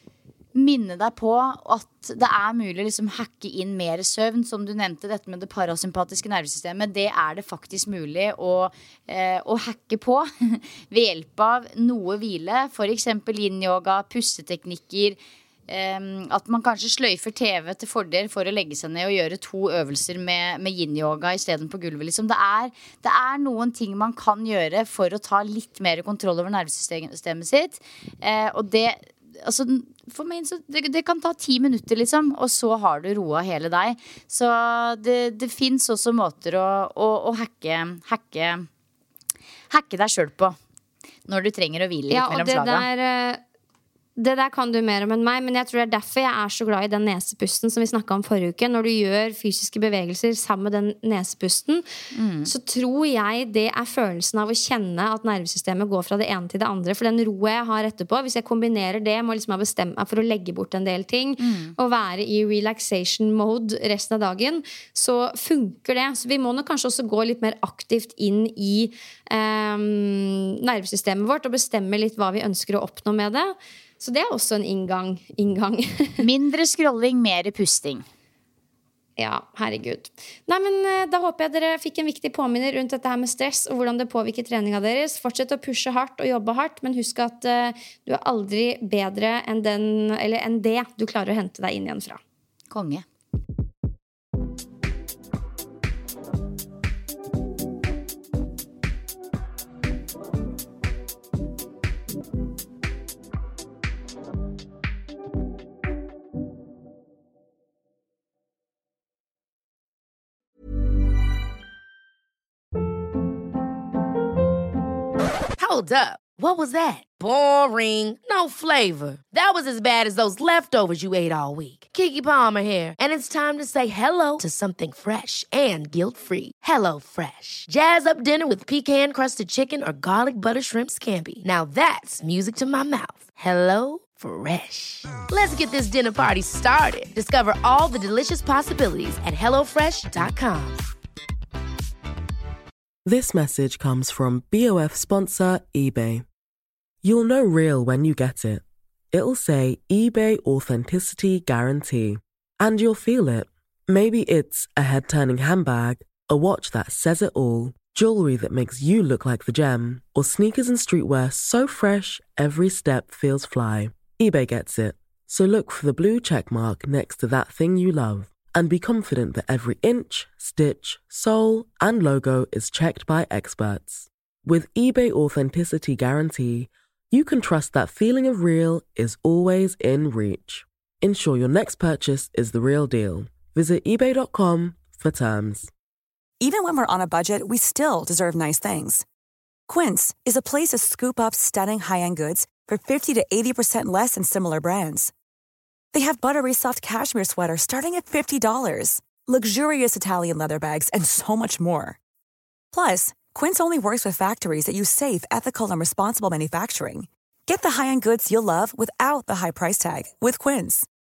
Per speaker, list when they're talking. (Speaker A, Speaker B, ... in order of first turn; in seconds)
Speaker A: 0.5-15.2, 15.7-38.6, 39.7-40.5, 41.3-42.8, 52.1-52.5, 61.4-61.7, 76.2-78.0, 92.7-93.0
Speaker B: 42.1-43.4, 44.1-51.8, 52.4-76.2, 79.2-92.2
Speaker C: 115.5-140.8
Speaker D: 143.1-146.2, 147.0-185.7
Speaker E: 186.4-189.0, 189.7-195.1, 195.9-202.0, 202.7-210.9